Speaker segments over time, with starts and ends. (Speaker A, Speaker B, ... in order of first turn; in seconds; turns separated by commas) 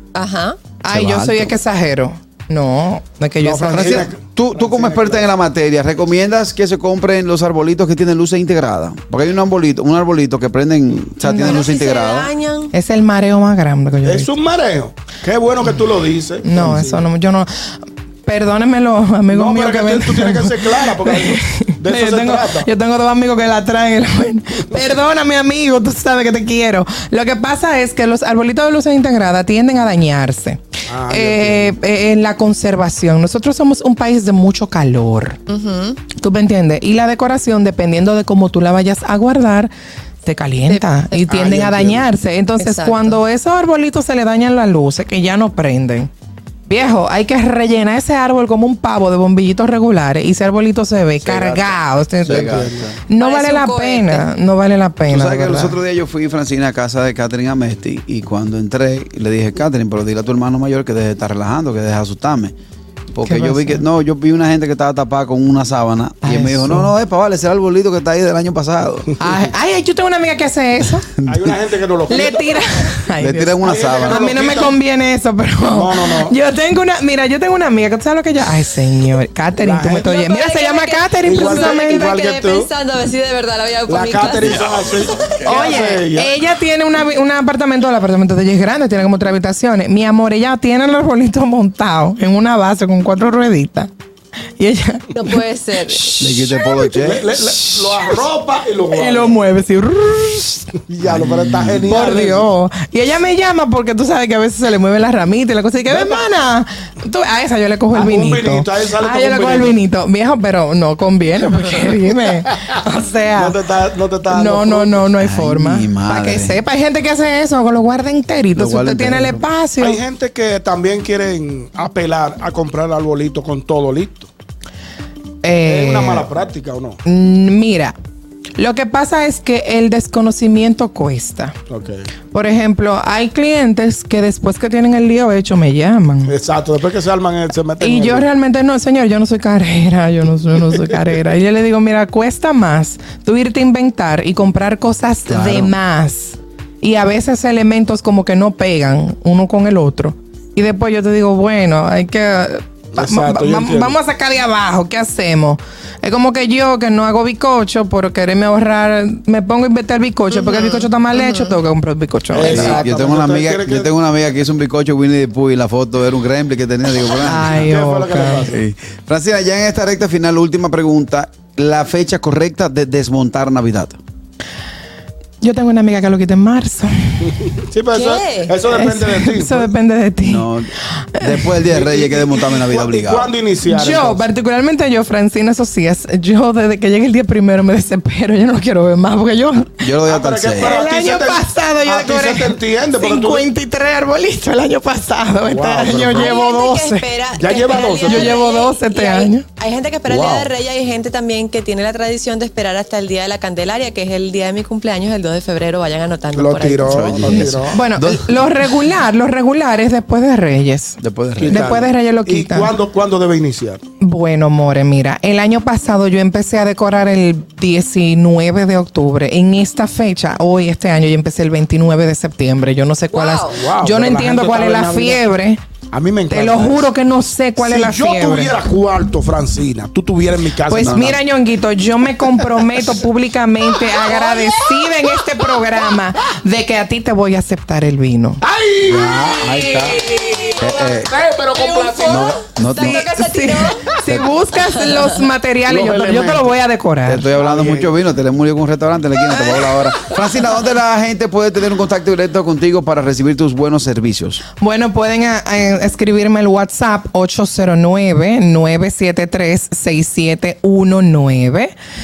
Speaker A: 0.1-0.6, Speaker B: 0.8-4.1, Speaker C: 0.9-1.6, Speaker D: 3.4-5.3, Speaker C: 3.7-12.3, Speaker B: 11.2-11.6, Speaker A: 11.4-12.7, Speaker B: 12.7-14.3, Speaker D: 14.0-17.0, Speaker B: 16.4-17.5, Speaker B: 18.2-35.4, Speaker D: 19.3-22.7, Speaker D: 30.9-31.8, Speaker A: 35.5-36.1, Speaker B: 36.1-39.7, Speaker B: 40.2-46.1, Speaker A: 40.7-41.3, Speaker D: 41.3-42.1, Speaker A: 42.6-43.2, Speaker B: 46.7-55.8, Speaker C: 51.2-53.0, Speaker D: 52.2-53.0, Speaker A: 53.1-54.2, Speaker C: 55.1-62.5, Speaker C: 63.1-69.1, Speaker B: 63.2-63.8, Speaker B: 66.2-66.9, Speaker B: 69.2-71.1, Speaker D: 71.2-72.7, Speaker B: 72.1-82.0, Speaker C: 73.2-74.2, Speaker D: 73.6-74.8, Speaker D: 75.7-76.3, Speaker D: 79.6-80.2, Speaker A: 80.0-85.3, Speaker D: 81.2-82.7, Speaker D: 83.8-86.3, Speaker C: 84.5-84.9, Speaker B: 85.4-93.9, Speaker B: 94.6-96.6, Speaker A: 95.1-96.2, Speaker C: 96.2-97.3, Speaker D: 96.9-99.4, Speaker B: 97.4-98.2, Speaker B: 98.9-100.7, Speaker D: 100.9-102.5, Speaker C: 101.0-101.9, Speaker B: 101.9-113.5, Speaker D: 105.9-106.2, Speaker D: 107.9-109.8, Speaker D: 113.3-115.1, Speaker B: 114.3-120.0, Speaker C: 115.2-116.6, Speaker C: 118.5-119.4, Speaker D: 119.8-124.3, Speaker B: 125.4-126.3, Speaker D: 125.6-127.0, Speaker B: 127.0-127.9, Speaker B: 128.6-131.5, Speaker D: 131.7-132.1, Speaker B: 132.3-136.3, Speaker D: 136.3-138.3, Speaker B: 137.8-162.8, Speaker C: 145.3-145.7, Speaker D: 152.9-153.9, Speaker A: 160.3-161.6, Speaker D: 162.3-163.9, Speaker C: 162.4-167.7, Speaker B: 167.2-168.4, Speaker D: 167.5-168.6, Speaker C: 168.5-174.0, Speaker B: 175.4-177.3, Speaker D: 177.5-179.7, Speaker A: 177.9-178.6, Speaker B: 178.7-180.5, Speaker C: 180.2-183.3, Speaker B: 181.1-181.5, Speaker D: 181.7-184.3, Speaker B: 183.7-189.7, Speaker C: 189.7-190.8, Speaker D: 190.1-193.5, Speaker B: 190.6-197.1, Speaker D: 195.4-196.3, Speaker A: 196.1-207.4, Speaker D: 197.3-198.4, Speaker B: 198.0-199.4, Speaker C: 200.1-200.4, Speaker D: 206.3-207.8, Speaker C: 206.9-208.4, Speaker B: 207.6-212.7, Speaker C: 211.0-211.6, Speaker D: 211.4-213.8, Speaker B: 214.0-225.6, Speaker A: 223.1-223.6, Speaker D: 223.5-225.2, Speaker D: 225.9-226.9, Speaker B: 226.3-228.6, Speaker D: 227.6-231.2, Speaker B: 230.7-238.4, Speaker C: 230.8-231.1, Speaker A: 234.0-235.5, Speaker D: 238.4-242.4, Speaker C: 238.9-239.8, Speaker B: 239.5-240.4, Speaker C: 240.6-241.1, Speaker A: 241.5-244.0, Speaker C: 242.1-243.0, Speaker B: 242.8-247.3, Speaker A: 244.7-245.2, Speaker D: 245.7-246.5, Speaker C: 247.0-254.4, Speaker D: 247.3-248.0, Speaker B: 254.6-261.7